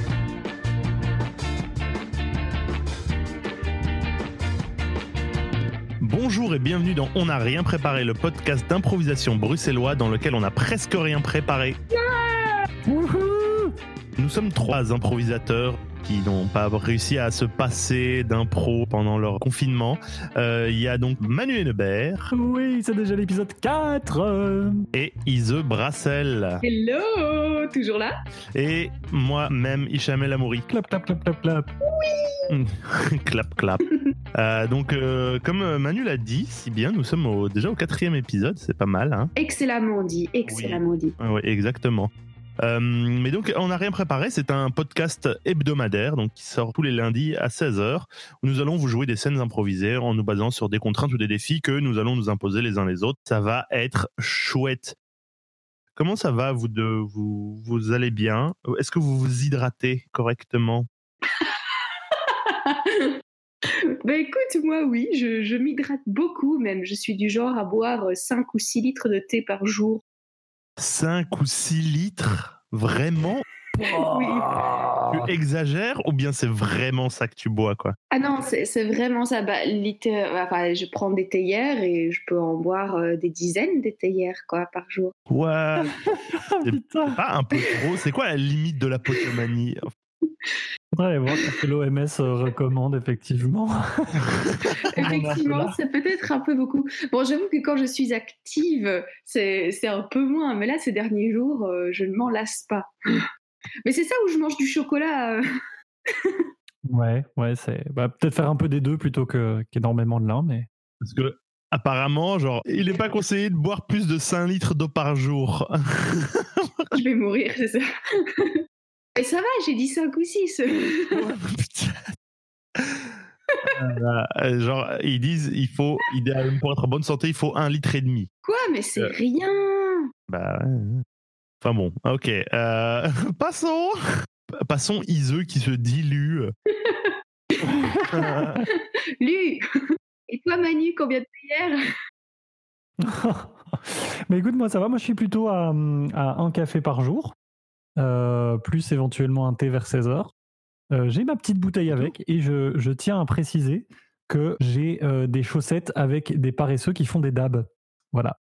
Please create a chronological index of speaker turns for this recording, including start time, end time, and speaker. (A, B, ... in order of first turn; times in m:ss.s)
0:06.0-0:11.8 A
0:11.9-0:12.7 B
0:12.8-0:13.7 C
0:14.2-0:22.3 A
0:22.3-0:24.9 C
0:24.9-0:26.6 A
0:26.6-0:28.1 B
0:28.5-0:30.6 A
0:30.7-0:31.7 C
0:31.8-0:32.5 B
0:32.5-0:33.8 A
0:34.3-0:39.3 A
0:39.4-0:41.2 B
0:40.4-0:42.1 A
0:42.6-0:55.0 A
0:56.0-1:00.9 A
1:02.3-1:03.1 B
1:04.0-1:10.0 B
1:10.8-1:13.4 A
1:13.7-1:15.3 C
1:13.9-1:14.5 B
1:15.1-1:17.9 A
1:18.1-1:25.1 B
1:25.3-1:25.9 A
1:25.8-1:27.2 C
1:26.6-1:29.9 A
1:31.0-1:35.8 C
1:34.9-1:43.3 B
1:43.8-1:45.4 B
1:46.1-1:46.5 B
1:46.8-1:50.7 C
1:51.0-1:56.9 A
1:56.9-1:58.6 B
1:59.2-2:01.2 B
2:01.3-2:01.9 A
2:01.3-2:01.8 C
2:02.8-2:08.3 A
2:03.5-2:03.8 B
2:08.4-2:10.1 B
2:10.3-2:11.0 A
2:11.6-2:16.5 A
2:16.7-2:19.6 B
2:17.6-2:18.6 C
2:18.1-2:18.6 A
2:20.3-2:21.8 B
2:23.0-2:27.3 C
2:28.0-2:30.3 C
2:30.9-2:38.4 C